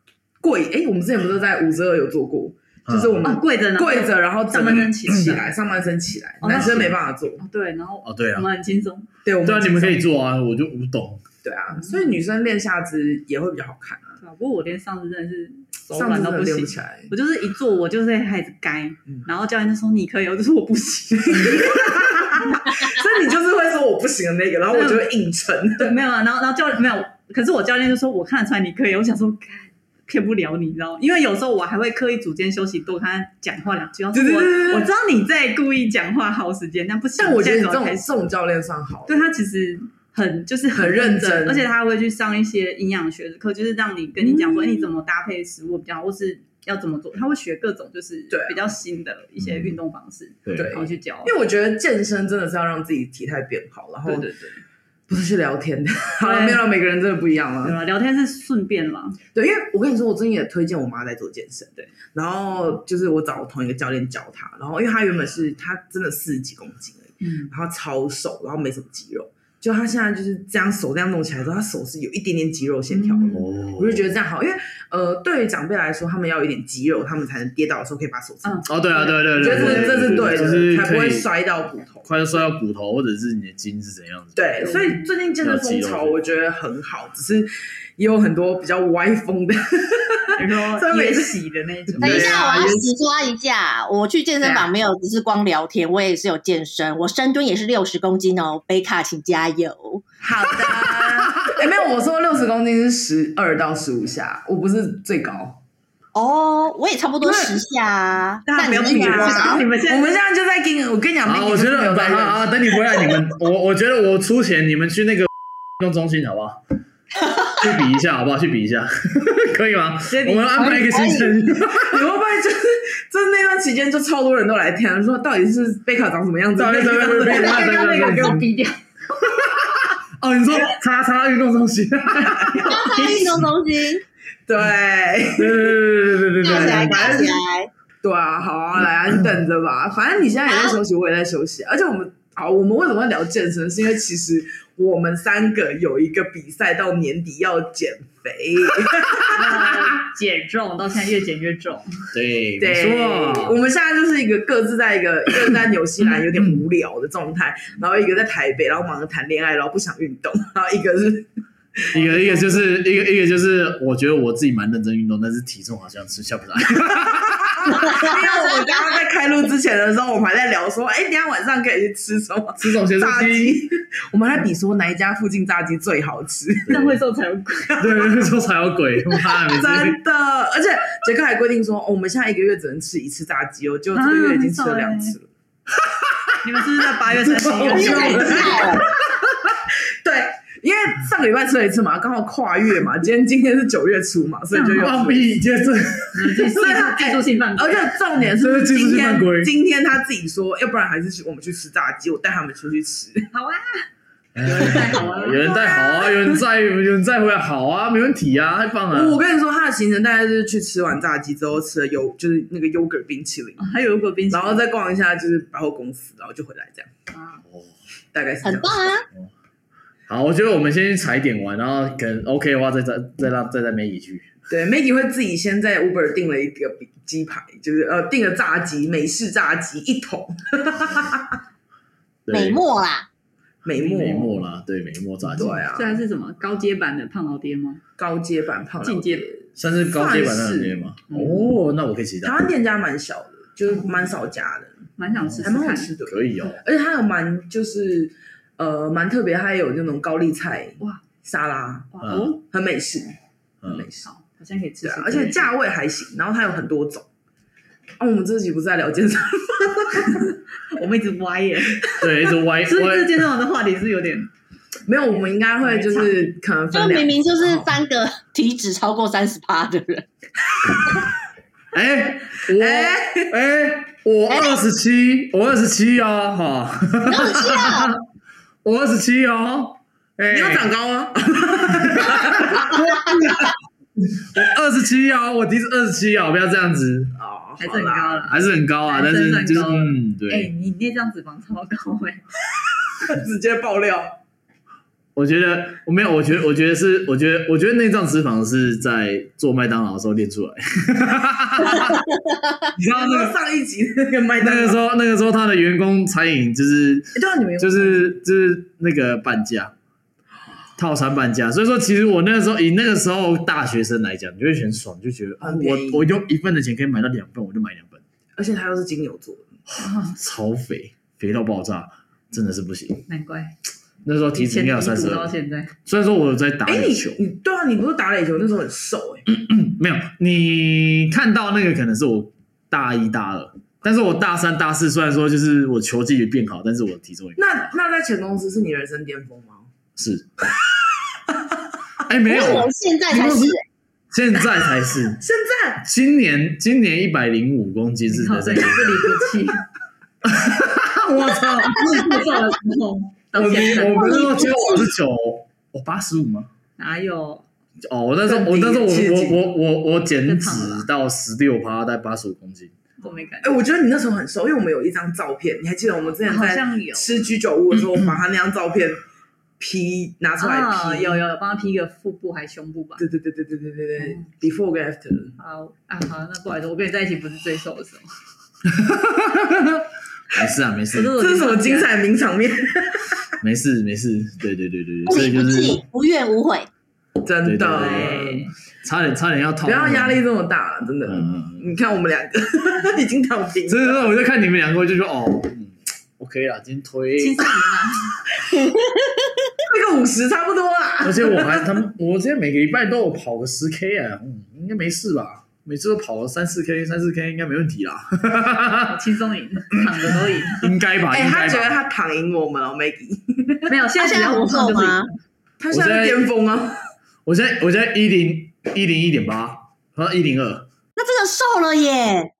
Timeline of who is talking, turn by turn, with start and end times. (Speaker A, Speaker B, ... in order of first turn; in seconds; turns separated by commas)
Speaker A: 0.4-7.4, Speaker B: 2.9-3.3, Speaker C: 3.2-5.5, Speaker C: 6.4-9.1, Speaker B: 6.5-6.9, Speaker B: 8.0-8.5, Speaker A: 9.2-10.1, Speaker B: 9.4-11.2, Speaker A: 11.4-14.2, Speaker C: 11.8-12.0, Speaker C: 14.2-22.8, Speaker A: 15.9-17.1, Speaker A: 21.2-25.9, Speaker C: 24.7-25.0, Speaker C: 25.8-38.0, Speaker A: 34.1-34.9, Speaker A: 37.2-39.3, Speaker C: 39.1-51.3, Speaker A: 40.7-41.7, Speaker A: 44.2-44.9, Speaker A: 48.3-48.6, Speaker B: 49.4-49.8, Speaker B: 50.4-50.8, Speaker A: 50.5-54.3, Speaker C: 54.0-54.6, Speaker A: 55.1-57.8, Speaker C: 56.2-56.6, Speaker C: 57.6-59.2, Speaker A: 59.3-82.1, Speaker C: 67.2-67.5, Speaker C: 72.9-73.4, Speaker B: 73.3-74.1, Speaker C: 78.4-80.6, Speaker B: 78.7-81.3, Speaker B: 82.0-84.7, Speaker A: 84.3-91.4, Speaker C: 84.6-85.0, Speaker B: 85.4-86.2, Speaker C: 90.3-92.7, Speaker B: 92.0-92.8, Speaker A: 92.0-92.6, Speaker D: 92.0-100.0, Speaker C: 94.4-94.7, Speaker A: 100.2-105.6, Speaker D: 106.1-109.6, Speaker C: 108.5-110.1, Speaker A: 108.5-112.7, Speaker B: 111.2-116.6, Speaker B: 117.5-122.0, Speaker C: 120.1-120.9, Speaker D: 120.5-121.3, Speaker A: 121.7-128.1, Speaker B: 126.6-128.4, Speaker C: 127.2-128.8, Speaker B: 129.4-132.8, Speaker C: 132.2-133.4, Speaker D: 132.6-134.0, Speaker A: 134.5-135.8, Speaker B: 135.3-137.4, Speaker D: 136.4-137.7, Speaker A: 138.0-149.7, Speaker D: 140.5-140.8, Speaker C: 149.3-152.1, Speaker B: 152.1-153.6, Speaker A: 152.6-162.7, Speaker B: 161.9-168.1, Speaker C: 161.9-162.6, Speaker A: 166.9-176.8, Speaker D: 167.8-168.1, Speaker B: 172.6-173.6, Speaker B: 176.7-177.0, Speaker C: 176.7-178.2, Speaker B: 177.8-180.0, Speaker A: 179.3-185.3, Speaker C: 183.9-185.1, Speaker C: 186.4-188.7, Speaker A: 187.2-188.8, Speaker D: 187.7-188.9, Speaker A: 190.0-195.4, Speaker C: 194.5-194.9, Speaker B: 194.8-196.6, Speaker C: 196.1-197.9, Speaker A: 196.5-203.3, Speaker B: 198.3-199.5, Speaker C: 203.3-203.9, Speaker B: 204.3-209.2, Speaker C: 204.4-206.4, Speaker A: 208.9-213.6, Speaker C: 213.6-214.6, Speaker A: 214.3-216.9, Speaker C: 217.1-217.4, Speaker A: 218.1-218.9, Speaker D: 218.4-219.0, Speaker B: 220.1-224.3, Speaker A: 224.5-231.4, Speaker B: 232.3-232.6, Speaker D: 232.3-233.1, Speaker A: 233.6-234.4, Speaker B: 233.6-235.6, Speaker A: 235.3-236.0, Speaker C: 235.4-237.8, Speaker A: 238.0-240.9, Speaker C: 238.8-239.3, Speaker B: 239.6-242.3, Speaker C: 241.1-241.5, Speaker A: 242.2-244.8, Speaker C: 245.0-245.9, Speaker B: 245.1-246.6, Speaker A: 245.4-254.1, Speaker C: 251.9-252.4, Speaker B: 252.0-252.3, Speaker B: 253.6-253.9, Speaker C: 254.0-255.4, Speaker A: 254.8-257.1, Speaker A: 258.0-260.2, Speaker C: 260.2-264.3, Speaker B: 262.0-263.2, Speaker A: 264.9-267.7, Speaker C: 265.6-266.3, Speaker D: 266.7-270.1, Speaker B: 271.7-278.0, Speaker A: 272.5-273.3, Speaker D: 277.1-277.9, Speaker B: 278.6-280.7, Speaker A: 280.3-283.0, Speaker B: 281.7-287.1, Speaker A: 287.1-288.3, Speaker C: 287.6-292.2, Speaker B: 288.3-290.5, Speaker A: 293.0-294.2, Speaker B: 295.1-302.0, Speaker A: 302.8-304.8, Speaker B: 302.8-303.3, Speaker B: 304.4-309.7, Speaker A: 307.1-308.1, Speaker B: 310.8-318.0, Speaker A: 315.4-316.1, Speaker A: 318.4-319.5, Speaker B: 319.7-323.1, Speaker C: 319.8-320.1, Speaker C: 323.1-323.5, Speaker B: 324.0-325.3, Speaker C: 324.3-325.7, Speaker B: 325.9-327.2, Speaker A: 326.6-329.2, Speaker B: 329.3-337.6, Speaker A: 337.4-339.7, Speaker B: 340.0-340.3, Speaker B: 342.0-343.6, Speaker D: 342.3-343.6, Speaker B: 344.1-345.2, Speaker A: 345.2-345.8, Speaker B: 345.8-349.2, Speaker C: 348.1-349.6, Speaker B: 350.2-352.4, Speaker C: 351.7-354.2, Speaker B: 353.3-356.5, Speaker D: 354.0-354.8, Speaker C: 356.8-357.4, Speaker B: 357.8-362.7, Speaker A: 358.2-359.4, Speaker C: 360.3-360.9, Speaker C: 363.0-363.6, Speaker A: 363.4-369.0, Speaker C: 366.2-367.2, Speaker A: 369.6-371.2, Speaker C: 370.4-373.0, Speaker A: 373.0-375.4, Speaker C: 375.4-378.1, Speaker B: 378.7-381.1, Speaker C: 380.9-381.9, Speaker A: 381.1-383.2, Speaker B: 383.4-385.8, Speaker D: 385.1-386.7, Speaker A: 387.2-388.5, Speaker B: 387.4-390.2, Speaker C: 387.8-388.5, Speaker A: 389.6-394.0, Speaker B: 391.1-391.7, Speaker B: 393.7-397.5, Speaker C: 397.2-398.2, Speaker D: 398.7-399.3, Speaker A: 399.6-401.8, Speaker B: 401.0-409.0, Speaker C: 408.9-410.7, Speaker B: 409.7-411.7, Speaker A: 411.1-413.7, Speaker C: 413.7-415.2, Speaker D: 414.0-415.1, Speaker A: 415.6-416.8, Speaker B: 415.7-416.2, Speaker B: 417.2-420.7, Speaker D: 421.0-422.3